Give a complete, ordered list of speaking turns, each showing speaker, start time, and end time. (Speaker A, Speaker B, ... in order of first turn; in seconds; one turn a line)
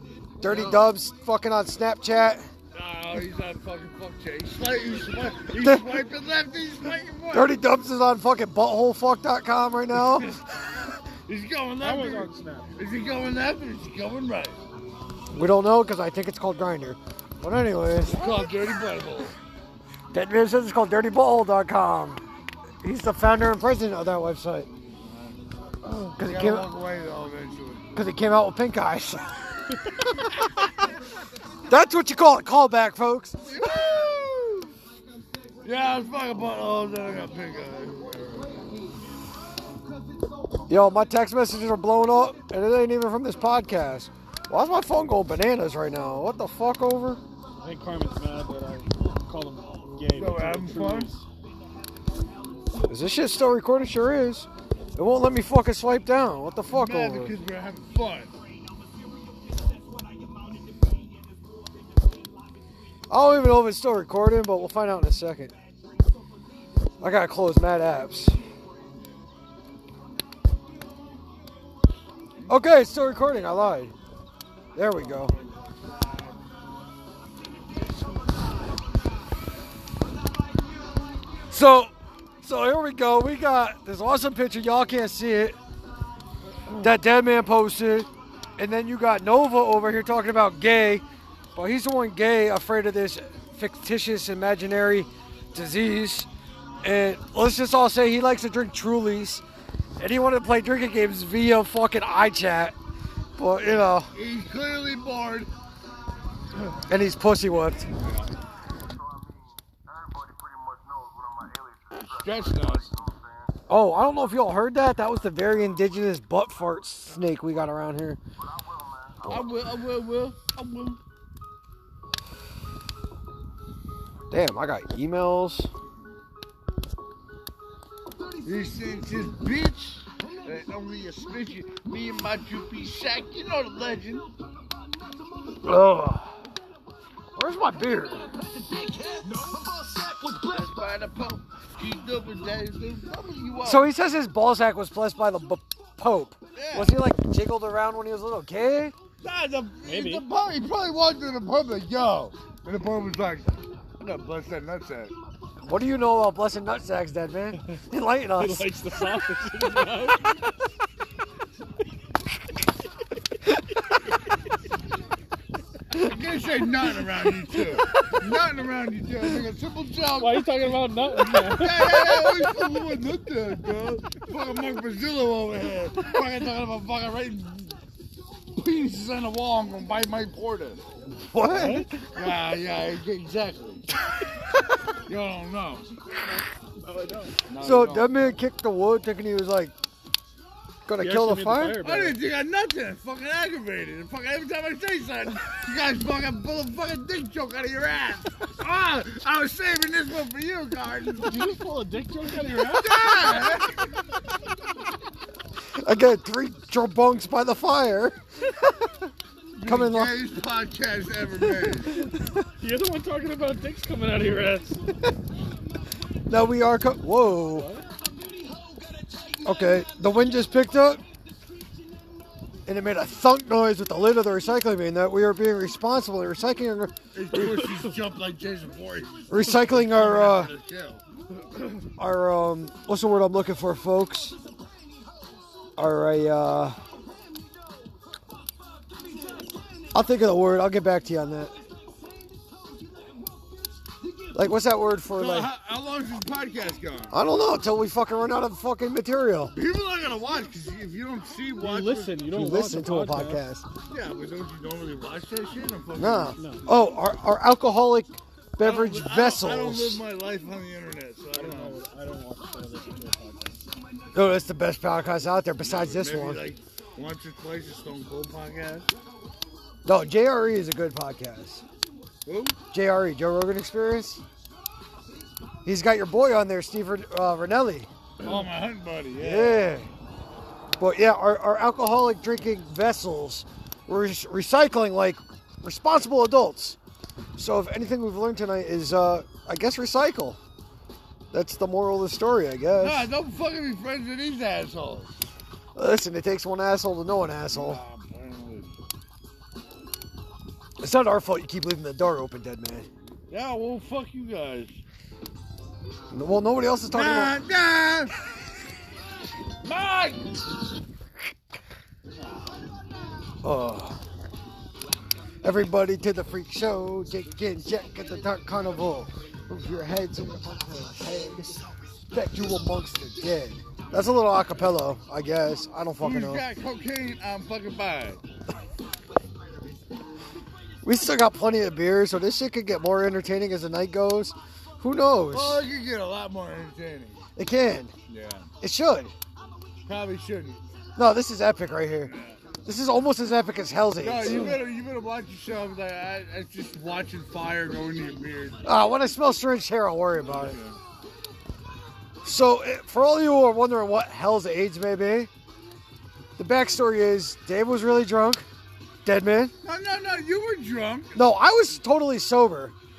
Speaker A: 0.4-0.9
Speaker B: 0.4-2.5
Speaker A: 2.7-7.6
Speaker B: 5.6-5.9
Speaker B: 7.3-10.3
Speaker A: 9.9-10.4
Speaker A: 11.2-14.6
Speaker C: 11.8-12.7
Speaker B: 15.3-18.2
Speaker A: 18.0-19.4
Speaker B: 20.1-22.2
Speaker B: 22.8-24.7
Speaker A: 25.0-25.4
Speaker B: 25.8-26.7
Speaker A: 26.1-27.9
Speaker B: 27.9-29.3
Speaker B: 30.1-30.5
Speaker B: 31.7-33.4
Speaker A: 33.5-34.7
Speaker A: 35.6-38.6
Speaker B: 40.7-47.2
Speaker C: 47.6-51.2
Speaker A: 50.1-51.1
Speaker B: 52.9-57.4
Speaker A: 56.7-58.3
Speaker B: 63.1-65.5
Speaker B: 67.0-68.4
Speaker B: 72.5-73.9
Speaker B: 74.7-75.3
Speaker A: 75.2-75.4
Speaker B: 81.5-81.9
Speaker B: 82.4-85.6
Speaker B: 86.8-91.0
Speaker B: 91.5-96.3
Speaker B: 96.8-99.4
Speaker B: 100.0-102.8
Speaker B: 103.4-104.1
Speaker A: 104.1-105.5
Speaker B: 106.9-107.9
Speaker A: 108.0-108.3
Speaker A: 112.1-113.0
Speaker B: 113.7-118.2
Speaker A: 119.2-121.0
Speaker B: 124.3-125.7
Speaker A: 128.4-134.3
Speaker B: 135.6-136.3
Speaker B: 137.3-138.3
Speaker A: 140.4-143.9
Speaker B: 143.6-148.9
Speaker A: 146.6-147.0
Speaker A: 149.2-155.1
Speaker C: 149.9-150.2
Speaker B: 155.6-158.7
Speaker C: 158.4-160.4
Speaker A: 165.9-170.5
Speaker C: 170.2-172.3
Speaker A: 171.3-177.8
Speaker A: 178.6-180.8
Speaker B: 181.2-181.9
Speaker C: 181.5-181.9
Speaker A: 182.1-183.9
Speaker A: 185.1-185.9
Speaker C: 186.8-187.3
Speaker A: 187.5-188.3
Speaker B: 187.6-189.7
Speaker B: 190.9-191.8
Speaker C: 191.0-192.2
Speaker A: 191.8-201.5
Speaker C: 201.2-203.4
Speaker A: 202.7-203.9
Speaker B: 205.8-208.9
Speaker A: 209.5-212.1
Speaker B: 209.6-210.1
Speaker C: 212.6-214.9
Speaker B: 216.3-217.7
Speaker C: 217.6-217.9
Speaker B: 219.4-221.0
Speaker B: 222.7-227.4
Speaker A: 227.1-231.0
Speaker B: 229.3-230.5
Speaker B: 232.0-234.4
Speaker B: 235.8-236.8
Speaker B: 239.9-241.6
Speaker B: 244.3-245.5
Speaker A: 245.1-247.2
Speaker B: 247.1-249.5
Speaker A: 249.5-252.2
Speaker C: 251.6-253.4
Speaker B: 252.3-253.7
Speaker A: 253.9-256.6
Speaker B: 256.0-260.0
Speaker C: 256.4-256.7
Speaker A: 258.6-261.8
Speaker C: 261.4-263.6
Speaker B: 264.1-266.4
Speaker A: 265.6-268.9
Speaker B: 269.9-271.6
Speaker A: 272.2-272.6
Speaker B: 272.7-274.2
Speaker B: 275.6-277.9
Speaker A: 278.2-279.7
Speaker B: 279.2-279.9
Speaker B: 280.8-286.8
Speaker B: 287.4-290.4
Speaker B: 291.3-293.1
Speaker A: 292.8-295.2
Speaker B: 295.7-297.8
Speaker A: 297.5-298.7
Speaker B: 300.8-302.9
Speaker A: 303.3-304.8
Speaker B: 306.1-307.4
Speaker A: 306.9-308.1
Speaker A: 309.6-310.4
Speaker A: 312.1-312.6
Speaker B: 313.4-314.0
Speaker B: 315.4-326.4
Speaker A: 326.0-328.2
Speaker B: 330.8-335.6
Speaker A: 335.3-337.3
Speaker B: 337.4-337.9
Speaker A: 338.1-338.5
Speaker B: 338.6-339.1
Speaker A: 339.9-340.6
Speaker B: 340.9-344.6
Speaker A: 342.1-342.4
Speaker A: 344.0-348.6
Speaker B: 348.6-350.6
Speaker A: 350.2-350.8
Speaker B: 352.2-355.3
Speaker B: 356.4-358.4
Speaker B: 359.1-359.5
Speaker A: 359.6-361.2
Speaker B: 361.1-362.7